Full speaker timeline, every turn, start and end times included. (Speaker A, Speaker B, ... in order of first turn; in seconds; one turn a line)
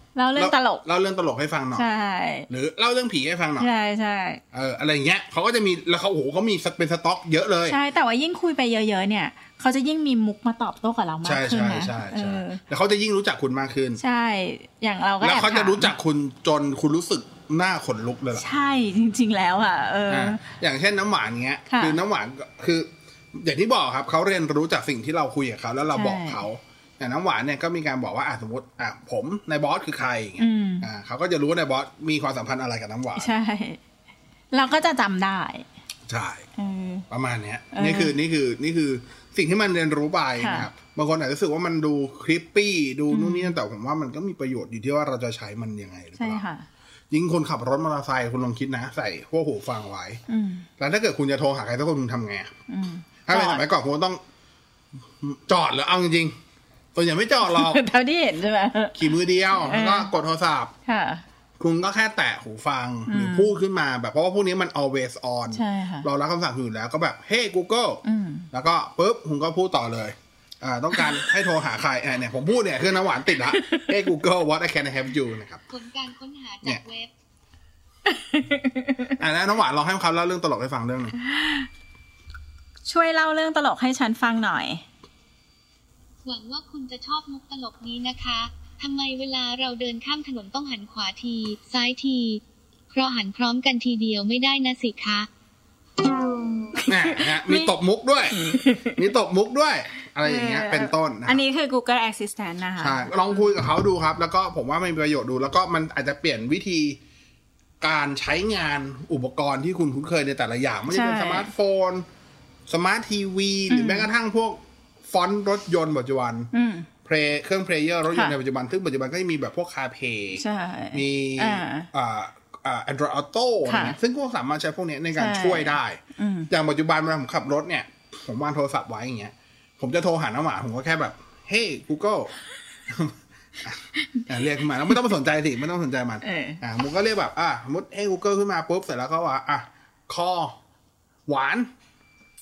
Speaker A: 0.2-0.8
Speaker B: 0.4-1.9
Speaker A: 1.8-2.5
Speaker B: 2.5-3.7
Speaker A: 3.6-4.4
Speaker B: 4.5-7.8
Speaker A: 7.7-12.6
Speaker B: 11.2-14.0
Speaker A: 14.0-15.9
Speaker B: 15.2-18.4
Speaker A: 18.3-20.4
Speaker B: 20.1-33.3
Speaker A: 21.7-22.0
Speaker A: 25.9-26.4
Speaker A: 30.4-30.9
Speaker A: 33.2-33.8
Speaker A: 34.5-35.7
Speaker B: 36.1-36.5
Speaker A: 36.6-37.1
Speaker B: 37.1-46.4
Speaker A: 37.7-38.1
Speaker A: 40.4-40.7
Speaker A: 43.1-43.5
Speaker A: 46.2-46.7
Speaker B: 47.1-50.2
Speaker A: 50.3-50.7
Speaker B: 50.8-52.5
Speaker A: 52.7-53.6
Speaker B: 53.3-54.2
Speaker B: 55.2-56.4
Speaker B: 57.0-57.8
Speaker A: 57.4-60.1
Speaker B: 59.0-60.7
Speaker A: 60.9-61.2
Speaker B: 61.6-75.6
Speaker A: 63.1-63.5
Speaker A: 65.5-66.1
Speaker A: 68.0-68.5
Speaker A: 73.5-73.9
Speaker C: 75.7-77.1
Speaker A: 78.1-79.2
Speaker B: 79.2-81.2
Speaker A: 81.2-81.7
Speaker A: 82.9-84.8
Speaker C: 86.2-95.3
Speaker A: 96.8-97.8
Speaker B: 96.9-101.4
Speaker A: 98.3-99.0
Speaker A: 100.2-103.5
Speaker B: 102.8-107.0
Speaker B: 107.8-112.1
Speaker A: 110.9-111.5
Speaker B: 112.7-116.5
Speaker A: 113.7-114.1
Speaker A: 116.5-116.9
Speaker B: 117.0-132.3
Speaker A: 120.4-121.9
Speaker A: 123.7-124.0
Speaker A: 125.2-126.5
Speaker B: 132.9-140.6
Speaker A: 136.2-136.6
Speaker B: 141.3-141.7